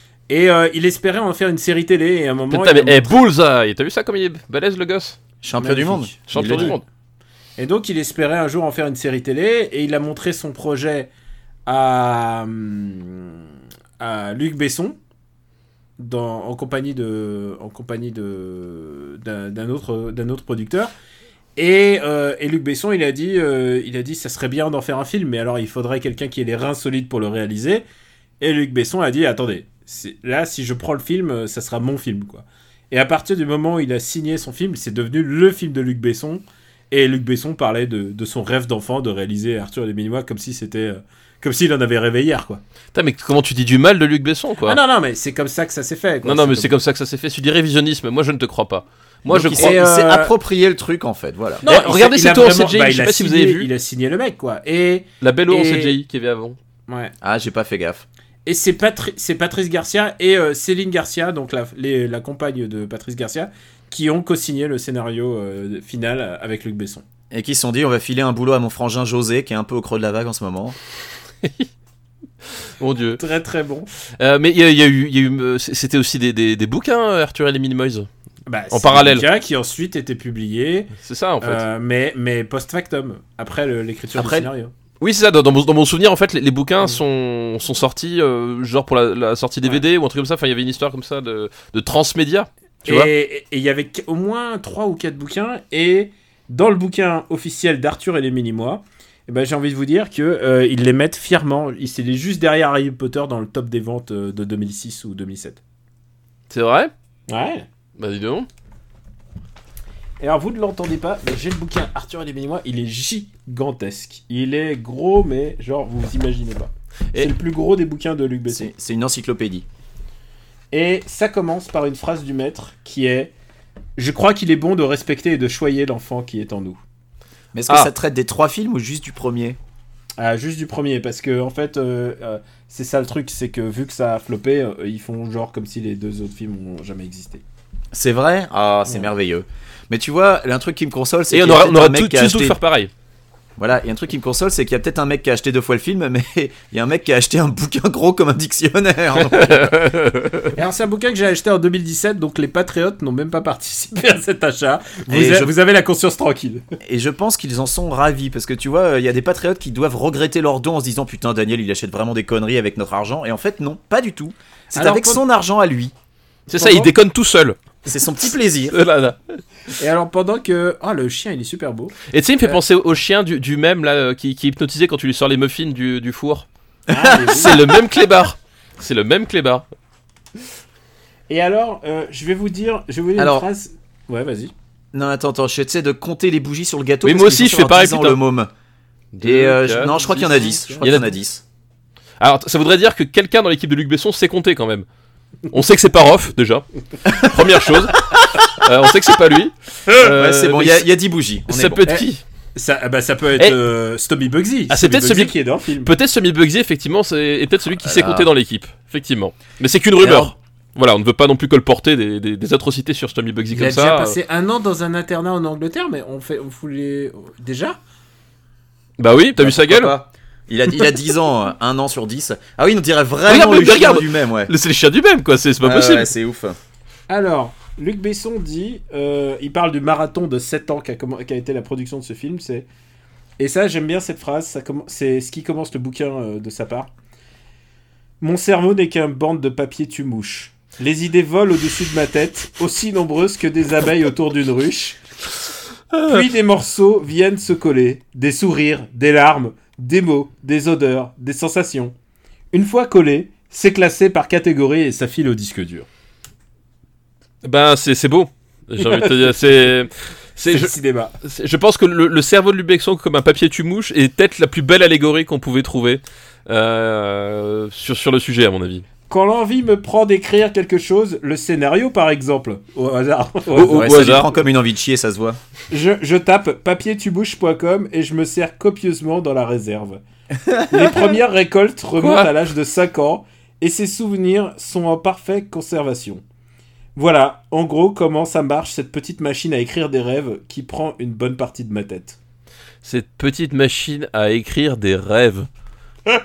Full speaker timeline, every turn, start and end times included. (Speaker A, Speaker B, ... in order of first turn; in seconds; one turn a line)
Speaker A: 0.3-3.2
Speaker B: 2.5-5.2
Speaker C: 5.4-6.8
Speaker A: 5.6-6.8
Speaker B: 6.3-6.8
Speaker A: 7.6-11.1
Speaker A: 11.7-13.4
Speaker A: 14.0-15.0
Speaker A: 16.0-20.9
Speaker A: 21.6-27.9
Speaker A: 28.4-42.6
Speaker B: 42.9-44.8
Speaker A: 44.6-46.7
Speaker B: 46.2-49.8
Speaker C: 49.3-51.6
Speaker A: 49.6-50.3
Speaker A: 51.6-56.0
Speaker B: 51.6-53.7
Speaker B: 55.2-56.6
Speaker A: 56.9-57.1
Speaker C: 57.2-58.0
Speaker A: 58.5-67.0
Speaker C: 67.3-70.8
Speaker B: 72.8-73.2
Speaker A: 73.2-73.9
Speaker B: 74.2-78.1
Speaker A: 78.5-84.7
Speaker B: 78.7-79.2
Speaker B: 81.0-81.6
Speaker B: 85.0-93.1
Speaker A: 92.9-105.6
Speaker B: 106.5-106.9
Speaker A: 107.3-107.7
Speaker B: 108.0-108.5
Speaker A: 110.2-118.7
Speaker C: 118.5-119.7
Speaker A: 120.7-123.3
Speaker A: 124.0-126.8
Speaker C: 127.5-129.6
Speaker A: 130.2-137.4
Speaker C: 137.9-142.6
Speaker B: 141.3-142.9
Speaker C: 143.6-149.9
Speaker B: 149.3-150.5
Speaker A: 150.5-156.6
Speaker C: 155.1-155.5
Speaker C: 156.8-165.9
Speaker A: 164.7-165.2
Speaker B: 166.5-167.6
Speaker A: 166.6-166.9
Speaker C: 167.9-168.8
Speaker B: 168.7-169.2
Speaker A: 169.8-171.9
Speaker B: 172.1-176.5
Speaker A: 176.9-177.6
Speaker C: 176.9-177.6
Speaker B: 177.2-179.7
Speaker A: 181.3-184.5
Speaker C: 183.2-183.4
Speaker C: 184.9-188.5
Speaker B: 187.0-188.2
Speaker B: 189.1-190.0
Speaker C: 189.2-191.4
Speaker A: 189.8-190.9
Speaker B: 190.8-191.1
Speaker B: 192.2-194.9
Speaker B: 195.5-200.9
Speaker C: 200.0-201.9
Speaker B: 201.5-202.2
Speaker A: 201.9-205.9
Speaker B: 204.7-214.2
Speaker C: 207.8-208.3
Speaker C: 210.0-210.3
Speaker A: 213.5-217.8
Speaker B: 219.0-219.9
Speaker C: 219.4-224.5
Speaker B: 223.3-226.1
Speaker C: 225.6-226.6
Speaker A: 227.1-232.7
Speaker A: 233.4-236.9
Speaker A: 238.2-245.0
Speaker A: 246.0-251.9
Speaker A: 252.5-255.9
Speaker B: 257.4-268.9
Speaker A: 258.8-259.2
Speaker A: 260.5-261.2
Speaker A: 269.1-273.8
Speaker B: 273.5-274.3
Speaker C: 273.6-275.4
Speaker A: 275.7-280.0
Speaker C: 280.5-280.9
Speaker A: 280.6-286.2
Speaker B: 282.0-282.3
Speaker A: 287.0-292.2
Speaker B: 292.8-295.5